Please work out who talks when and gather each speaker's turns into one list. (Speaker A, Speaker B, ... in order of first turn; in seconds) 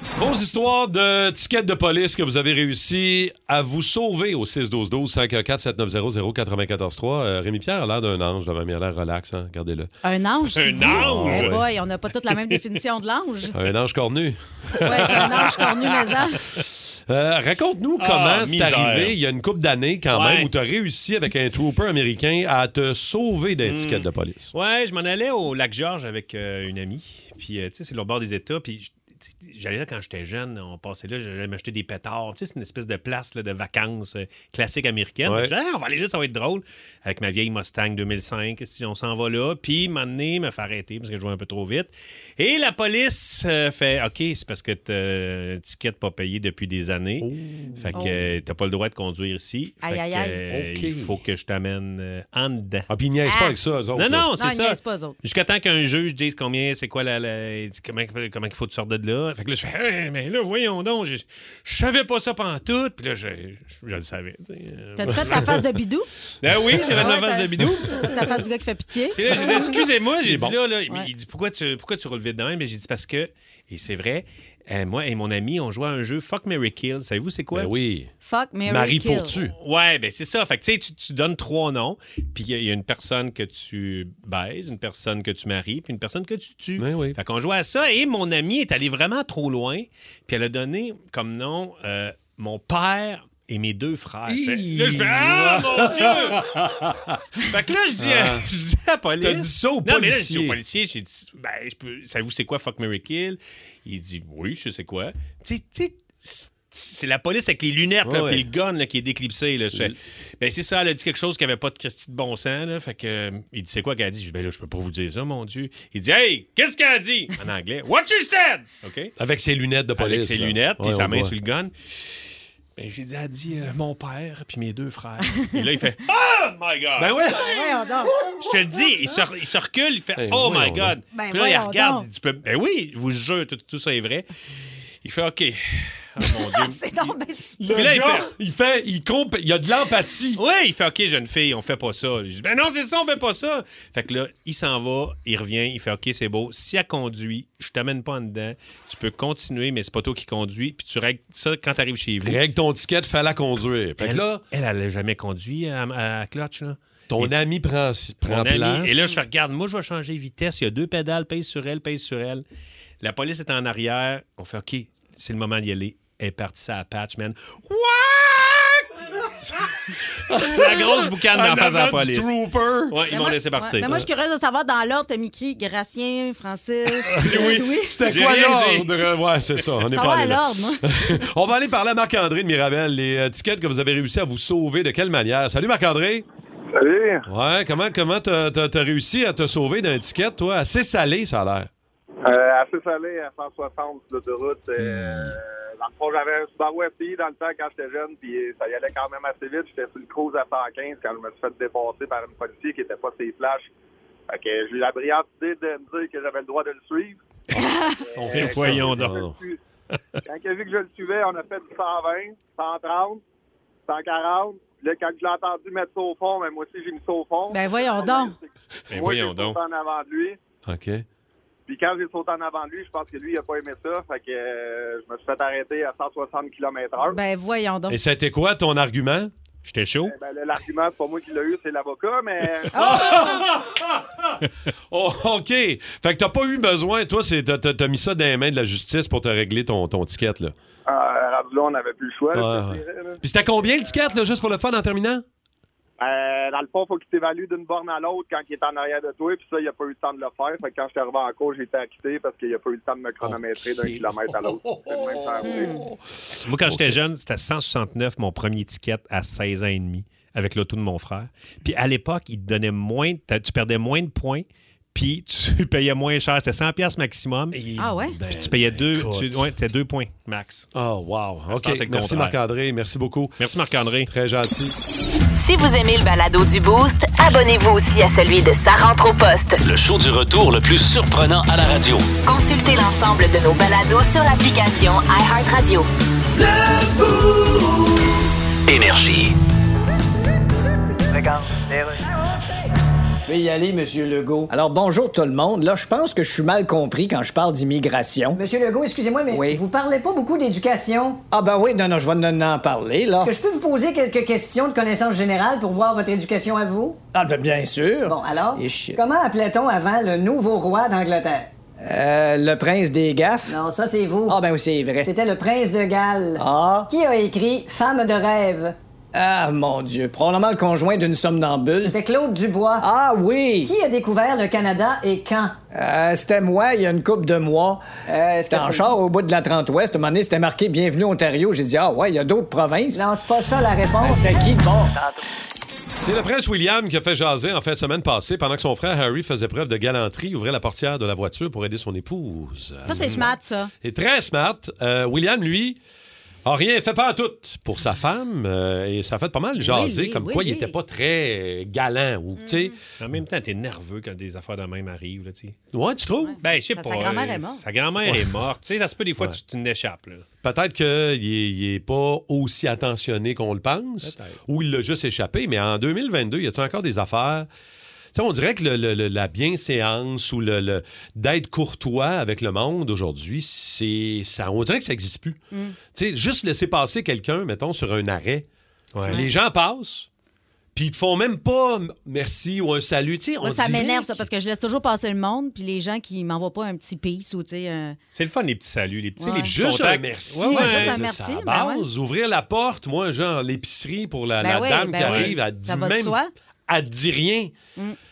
Speaker A: 0.1-9.9, 10.8-11.7, 13.5-15.7, 16.6-24.5, 35.2-35.5, 47.2-48.0, 50.5-51.2, 52.9-54.3, 66.7-68.1, 69.2-70.6, 77.5-78.1, 78.7-79.5, 86.8-87.2, 94.3-97.1, 98.0-98.5, 99.2-100.6, 108.0-108.5, 119.2-121.3, 127.0-128.5, 130.2-130.9, 137.6-140.4, 152.2-154.4, 157.1-159.2, 170.3-173.0, 177.2-186.3, 187.3-191.7, 208.2-209.4, 220.7-221.1, 227.9-229.3, 232.7-234.4, 234.9-240.5, 242.3-245.2, 253.2-257.0, 268.2-269.5, 270.7-273.5, 274.1-274.8, 335.9-345.8, 346.4-352.8, 355.7-356.4, 358.0-358.4, 360.4-367.5, 368.1-375.4, 375.9-378.5, 379.1-380.1, 380.8-384.3, 389.5-397.5
Speaker B: 10.0-13.6, 14.8-16.4, 47.9-48.2, 49.8-50.4, 53.3-53.5, 54.4-55.2, 65.0-66.1, 66.8-69.2, 78.2-79.4, 127.3-128.2, 131.1-132.1, 136.2-137.7, 173.1-178.1, 179.9-180.8, 207.6-208.0, 217.5-218.3, 227.1-228.0, 232.7-233.4, 255.4-255.8, 267.8-268.2, 342.9-343.7, 349.6-350.8, 352.4-352.8, 356.2-357.6, 383.4-388.0, 389.2-389.5, 390.5-391.9, 394.4-396.3
Speaker C: 10.6-11.5, 12.3-12.6, 15.2-15.9, 18.0-19.2, 20.1-20.5, 23.6-52.9, 54.0-65.5, 66.4-68.2, 69.1-77.7, 79.6-119.1, 120.0-121.7, 122.8-127.3, 128.3-134.3, 135.0-137.1, 137.7-138.3, 140.3-152.4, 154.0-157.3, 158.2-162.4, 163.0-169.7, 170.3-172.4, 172.9-173.9, 177.1-179.1, 208.3-209.2, 218.9-219.6, 229.7-230.2, 256.4-270.7, 271.5-272.4, 273.4-274.1, 353.0-355.6, 356.4-360.2, 364.0-364.4, 378.9-379.2, 388.1-391.0, 395.0-395.3
Speaker D: 186.7-187.3, 192.2-203.7, 204.3-207.2, 208.1-209.6, 210.2-213.2, 213.9-220.4, 221.7-227.2, 230.1-233.0, 240.9-243.2, 246.0-255.8
Speaker E: 275.4-279.6, 282.2-285.9
Speaker F: 279.6-282.1, 288.7-289.4
Speaker G: 286.9-287.2, 293.3-298.4, 299.3-299.6, 301.3-303.3, 307.1-309.0, 311.8-313.6, 314.3-315.1, 316.4-316.9, 319.1-321.9, 322.8-323.7, 325.7-327.9, 328.5-333.0, 334.0-334.9
Speaker H: 291.1-292.2, 298.3-301.2, 303.2-307.0, 308.1-311.5, 313.5-314.4, 315.0-318.8, 321.8-322.9, 323.6-325.6, 328.1-329.0, 332.9-334.4